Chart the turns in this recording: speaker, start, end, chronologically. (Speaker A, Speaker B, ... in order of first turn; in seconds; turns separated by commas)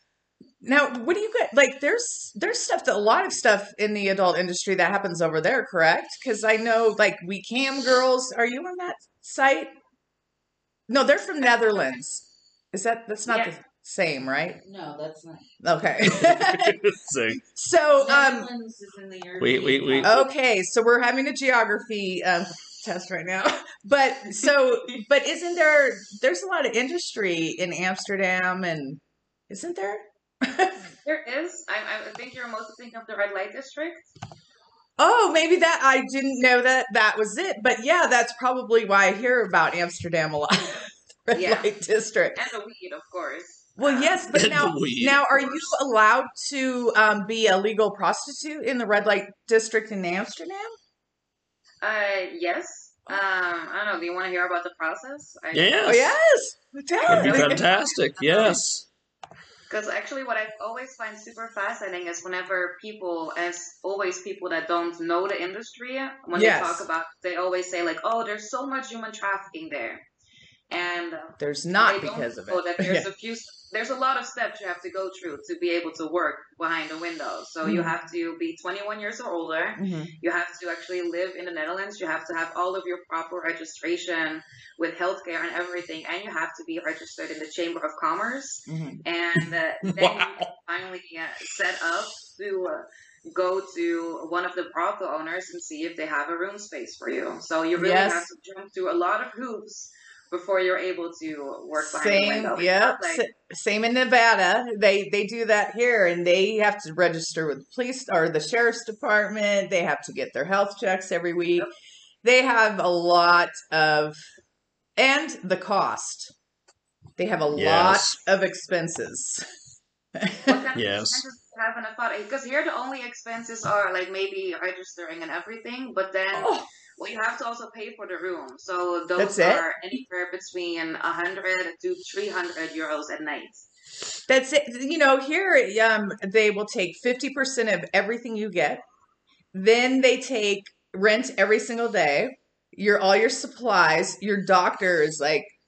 Speaker A: 0.6-9.7, Speaker A: 10.9-14.6, Speaker B: 13.3-13.5, Speaker C: 14.6-15.5, Speaker A: 15.6-16.8, Speaker D: 16.0-17.4, Speaker A: 17.4-18.5, Speaker C: 18.0-20.2, Speaker D: 19.4-20.1, Speaker A: 20.0-30.9, Speaker B: 31.0-34.1, Speaker A: 35.0-42.4, Speaker B: 41.3-41.7, Speaker B: 42.4-44.3, Speaker A: 43.8-50.8, Speaker D: 44.3-45.7, Speaker B: 51.8-56.0, Speaker D: 55.5-56.1, Speaker A: 55.9-57.6, Speaker D: 57.0-58.9, Speaker B: 57.1-58.6, Speaker B: 59.7-70.1, Speaker A: 66.3-66.8, Speaker B: 70.7-103.3, Speaker A: 71.4-73.1, Speaker A: 77.6-77.9, Speaker A: 79.8-80.1, Speaker A: 88.7-89.0, Speaker D: 89.8-90.5, Speaker A: 97.8-98.3, Speaker A: 101.8-111.7, Speaker A: 112.2-114.2, Speaker A: 115.0-116.3, Speaker A: 117.2-119.4, Speaker D: 117.5-118.2, Speaker A: 120.2-120.6, Speaker B: 120.5-133.7, Speaker D: 120.8-121.2, Speaker A: 126.3-126.7, Speaker A: 129.2-129.7, Speaker A: 134.3-138.8, Speaker A: 139.5-145.5